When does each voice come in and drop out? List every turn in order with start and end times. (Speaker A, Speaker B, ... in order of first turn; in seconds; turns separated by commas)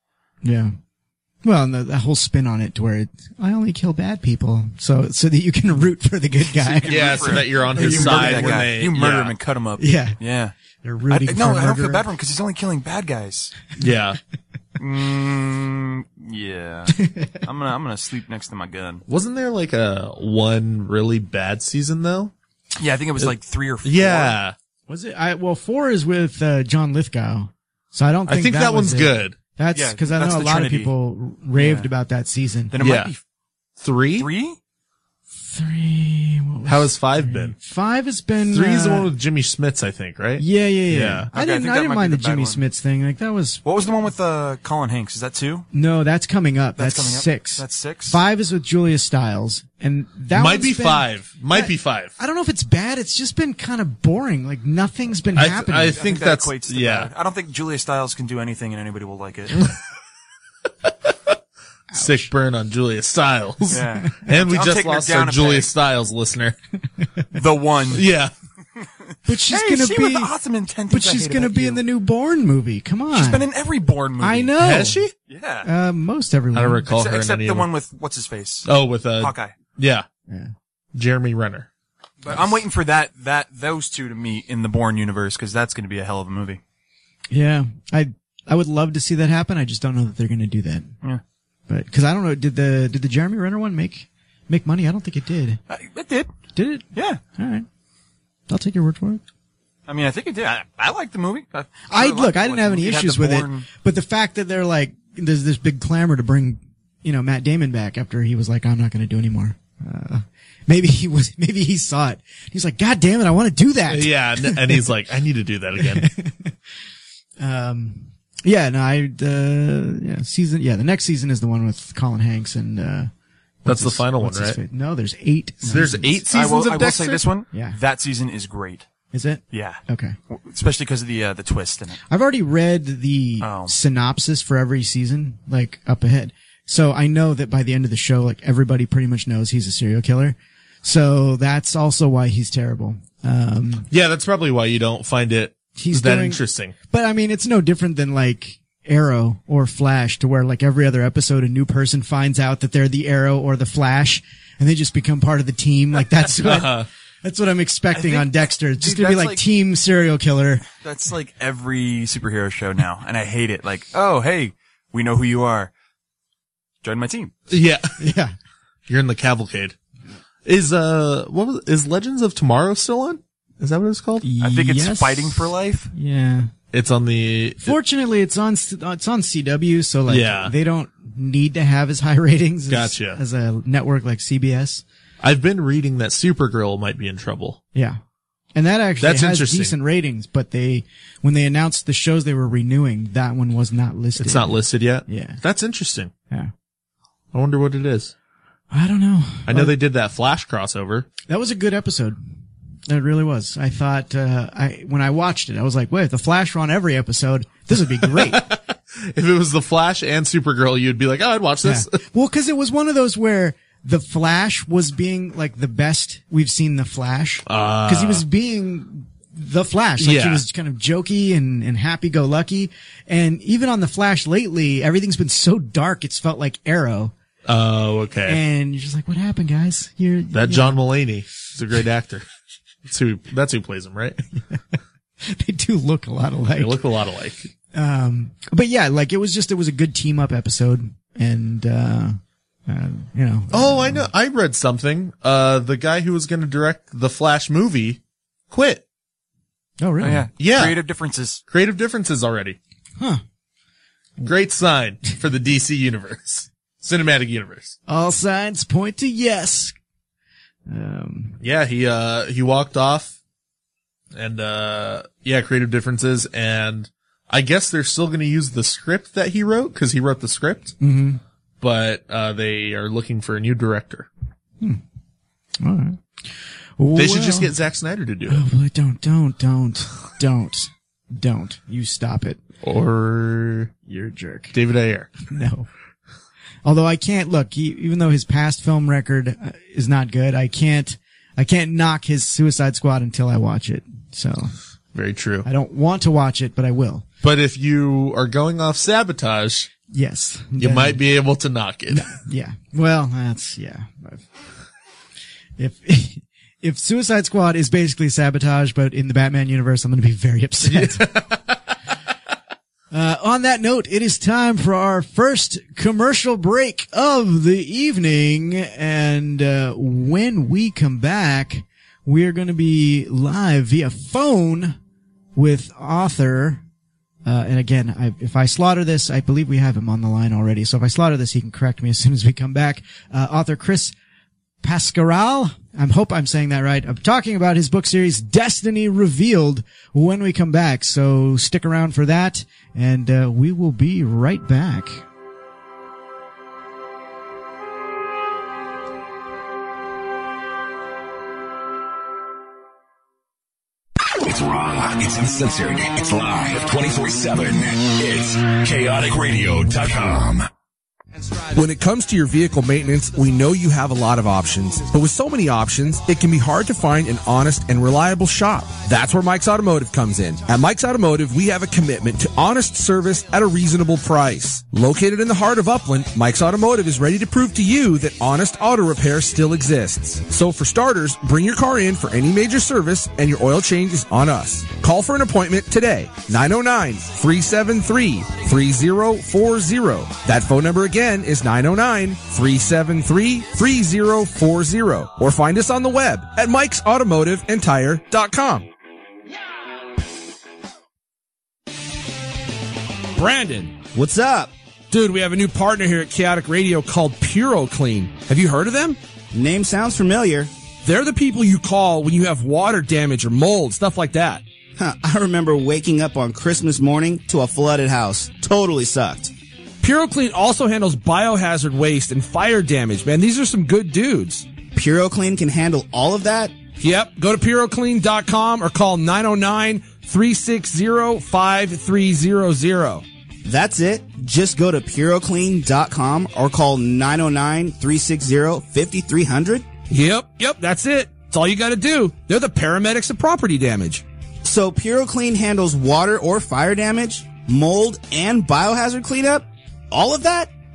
Speaker A: 0.4-0.7, Speaker A: 1.4-8.7, Speaker B: 6.5-10.5, Speaker C: 6.8-9.3, Speaker A: 9.8-10.2, Speaker A: 10.8-12.0, Speaker B: 11.1-13.5, Speaker C: 13.8-14.2, Speaker B: 14.8-19.0, Speaker A: 16.9-17.4, Speaker C: 19.1-22.3, Speaker B: 22.8-24.4, Speaker C: 23.8-24.5, Speaker A: 24.9-32.7, Speaker C: 28.3-29.4, Speaker B: 29.7-30.9, Speaker B: 31.5-31.9, Speaker B: 32.7-33.2, Speaker C: 32.8-33.1, Speaker C: 33.8-34.3, Speaker B: 34.1-34.6, Speaker A: 35.4-39.1, Speaker C: 36.6-37.5, Speaker C: 38.5-41.3, Speaker A: 40.4-43.6, Speaker B: 41.3-42.6, Speaker B: 43.6-45.6, Speaker A: 45.7-56.0, Speaker B: 46.8-48.2, Speaker C: 50.3-52.1, Speaker C: 55.3-57.1, Speaker B: 55.9-59.6, Speaker A: 61.9-62.3, Speaker C: 61.9-66.5, Speaker B: 63.7-65.7, Speaker B: 67.3-68.0, Speaker C: 67.9-68.3, Speaker A: 69.2-70.3, Speaker B: 69.5-71.8, Speaker A: 70.9-73.4, Speaker B: 73.1-74.5, Speaker A: 74.2-75.0, Speaker C: 74.6-75.1, Speaker B: 75.3-75.7, Speaker A: 75.6-76.8, Speaker C: 76.5-77.7, Speaker B: 76.9-79.5, Speaker C: 78.7-80.0, Speaker A: 80.3-80.5, Speaker C: 80.9-81.7, Speaker B: 82.2-86.6, Speaker A: 87.3-90.9, Speaker A: 91.7-95.6, Speaker B: 95.7-96.3, Speaker A: 96.5-97.7, Speaker B: 96.9-97.2, Speaker A: 98.5-99.2, Speaker B: 99.9-103.7, Speaker A: 101.9-114.8, Speaker C: 113.9-116.1, Speaker A: 115.8-116.6, Speaker A: 117.4-123.1, Speaker A: 123.6-126.1, Speaker C: 123.6-124.6, Speaker B: 125.6-128.8, Speaker C: 125.7-127.2, Speaker A: 127.5-127.8, Speaker A: 129.1-130.2, Speaker B: 129.5-132.0, Speaker A: 132.1-143.9, Speaker B: 133.4-133.7, Speaker C: 143.9-146.7, Speaker A: 145.8-160.6, Speaker C: 156.4-156.9, Speaker B: 157.9-159.4, Speaker B: 160.8-165.7, Speaker B: 166.8-167.3, Speaker C: 167.5-167.9, Speaker A: 168.0-168.3, Speaker C: 168.9-169.7, Speaker C: 170.4-174.3, Speaker A: 174.2-176.5, Speaker B: 174.4-175.9, Speaker C: 176.7-177.8, Speaker A: 177.6-184.8, Speaker C: 180.1-180.5, Speaker C: 182.7-183.2, Speaker C: 185.2-187.6, Speaker A: 187.7-188.0, Speaker A: 188.5-195.4, Speaker C: 189.0-189.7, Speaker C: 194.2-196.1, Speaker C: 197.3-198.1, Speaker A: 198.7-199.7, Speaker C: 199.4-201.1, Speaker A: 201.3-202.2, Speaker A: 202.8-208.6, Speaker C: 208.0-212.0, Speaker A: 211.6-227.1, Speaker C: 217.5-218.2, Speaker C: 220.0-220.4, Speaker C: 227.4-228.4, Speaker A: 228.3-230.8, Speaker C: 230.3-232.2, Speaker C: 232.8-234.2, Speaker A: 235.2-236.8, Speaker C: 236.5-237.5, Speaker A: 237.7-244.1, Speaker C: 243.5-248.8, Speaker A: 249.8-250.3, Speaker B: 250.0-251.4, Speaker C: 250.4-250.8, Speaker C: 251.5-252.6, Speaker C: 254.2-257.8, Speaker A: 257.9-259.7, Speaker A: 260.7-261.4, Speaker C: 261.4-263.1, Speaker C: 264.1-270.7, Speaker A: 270.8-271.2, Speaker C: 271.6-274.1, Speaker A: 275.6-276.0, Speaker A: 276.8-277.5, Speaker C: 276.9-278.4, Speaker A: 278.3-282.4, Speaker C: 282.6-283.8, Speaker A: 283.9-284.5, Speaker C: 284.5-285.2, Speaker A: 285.3-285.7, Speaker A: 286.6-294.5, Speaker C: 294.9-295.5, Speaker A: 295.4-297.1, Speaker C: 297.2-299.7, Speaker A: 299.9-301.0, Speaker C: 300.6-302.1, Speaker A: 301.9-304.2, Speaker A: 305.6-311.2, Speaker C: 310.6-311.6, Speaker A: 312.9-324.8, Speaker A: 325.3-326.6, Speaker A: 327.2-333.9, Speaker A: 334.6-345.0, Speaker D: 354.4-360.4, Speaker E: 361.5-398.6, Speaker E: 403.1-403.8, Speaker F: 403.9-404.5, Speaker E: 404.9-409.0, Speaker F: 409.3-410.5, Speaker E: 410.8-414.4, Speaker F: 414.8-419.3, Speaker E: 419.8-424.5, Speaker F: 424.7-426.5, Speaker E: 426.8-433.0, Speaker F: 433.4-439.7, Speaker E: 439.9-444.0, Speaker F: 444.4-450.5